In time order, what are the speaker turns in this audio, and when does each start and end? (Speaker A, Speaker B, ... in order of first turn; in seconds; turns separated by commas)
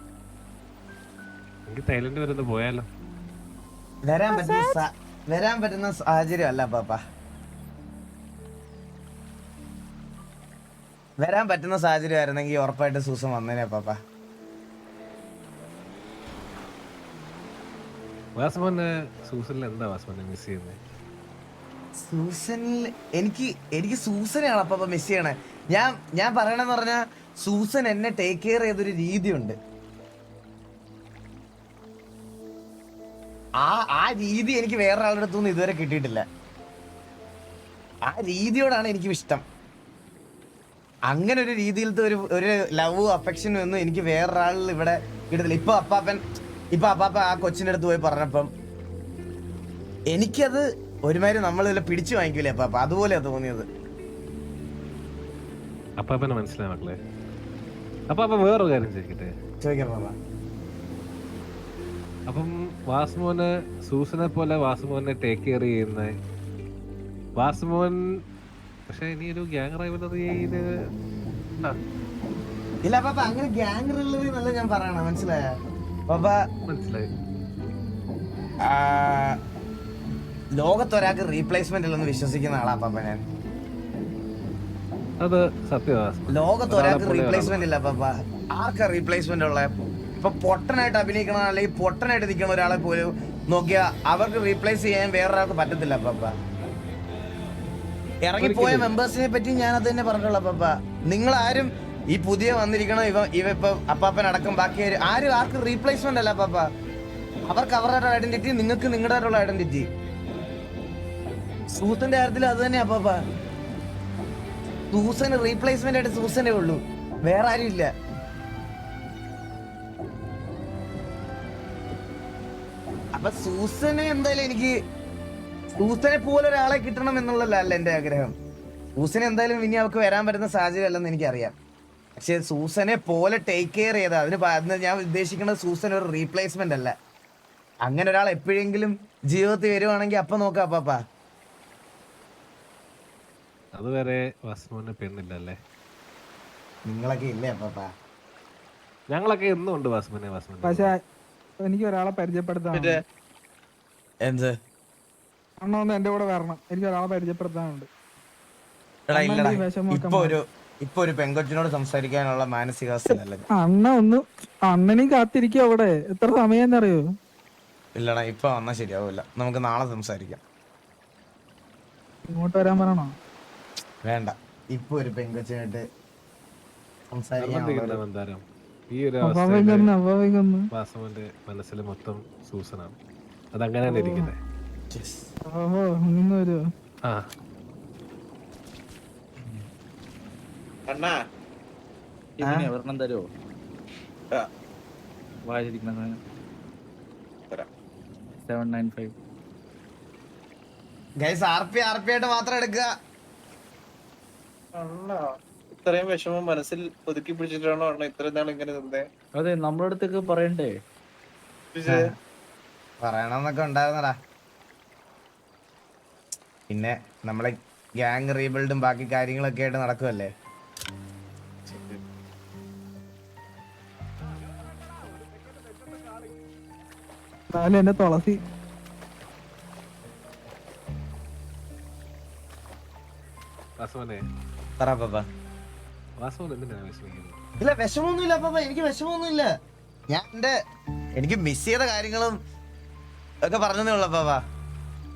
Speaker A: 1.7-2.9, Speaker B: 4.0-7.0, Speaker B: 11.2-14.0, Speaker A: 18.4-20.8, Speaker B: 22.0-29.6, Speaker B: 33.6-36.2, Speaker B: 38.1-39.4, Speaker B: 41.1-46.2, Speaker B: 46.7-48.5, Speaker B: 50.1-53.7, Speaker A: 56.0-57.0, Speaker A: 58.1-59.3, Speaker B: 59.6-60.1, Speaker A: 62.3-66.1, Speaker A: 67.4-68.0, Speaker A: 68.9-70.7, Speaker B: 72.8-75.4, Speaker B: 76.1-76.4, Speaker A: 76.7-77.1, Speaker B: 78.7-79.4, Speaker B: 80.6-83.2, Speaker A: 85.2-87.7, Speaker B: 86.3-96.3, Speaker B: 98.2-106.7, Speaker A: 98.4-98.9, Speaker B: 107.5-109.9, Speaker B: 111.7-113.2, Speaker B: 114.9-117.9, Speaker B: 123.2-124.7, Speaker B: 125.8-128.3, Speaker B: 129.0-131.5, Speaker B: 132.2-136.9, Speaker B: 137.8-141.0, Speaker A: 143.7-145.6, Speaker B: 146.9-147.9, Speaker A: 149.1-150.9, Speaker C: 150.6-151.0, Speaker C: 151.6-153.0, Speaker D: 152.7-153.0, Speaker B: 154.2-154.5, Speaker C: 155.6-157.9, Speaker B: 159.1-163.4, Speaker C: 159.1-160.3, Speaker C: 163.5-167.1, Speaker B: 167.9-170.4, Speaker C: 172.3-173.2, Speaker B: 174.0-175.8, Speaker B: 177.1-178.0, Speaker A: 177.4-179.9, Speaker C: 179.2-180.7, Speaker A: 180.7-182.9, Speaker A: 183.5-184.4, Speaker C: 183.8-184.3, Speaker B: 184.9-185.2, Speaker C: 185.4-186.7, Speaker D: 190.9-191.2, Speaker E: 192.4-193.2, Speaker B: 192.4-192.7, Speaker E: 195.5-196.2, Speaker E: 198.4-199.1, Speaker B: 201.2-202.9, Speaker D: 204.8-209.1, Speaker E: 209.4-210.7, Speaker D: 211.7-212.1, Speaker B: 211.8-212.1, Speaker B: 213.0-214.2, Speaker B: 216.7-220.3, Speaker D: 221.7-222.0, Speaker A: 224.8-225.8, Speaker C: 227.5-228.4, Speaker A: 233.8-234.2, Speaker B: 234.8-235.2, Speaker A: 236.2-237.4, Speaker B: 237.6-239.5, Speaker B: 240.1-240.5, Speaker B: 241.2-242.4, Speaker B: 243.4-244.4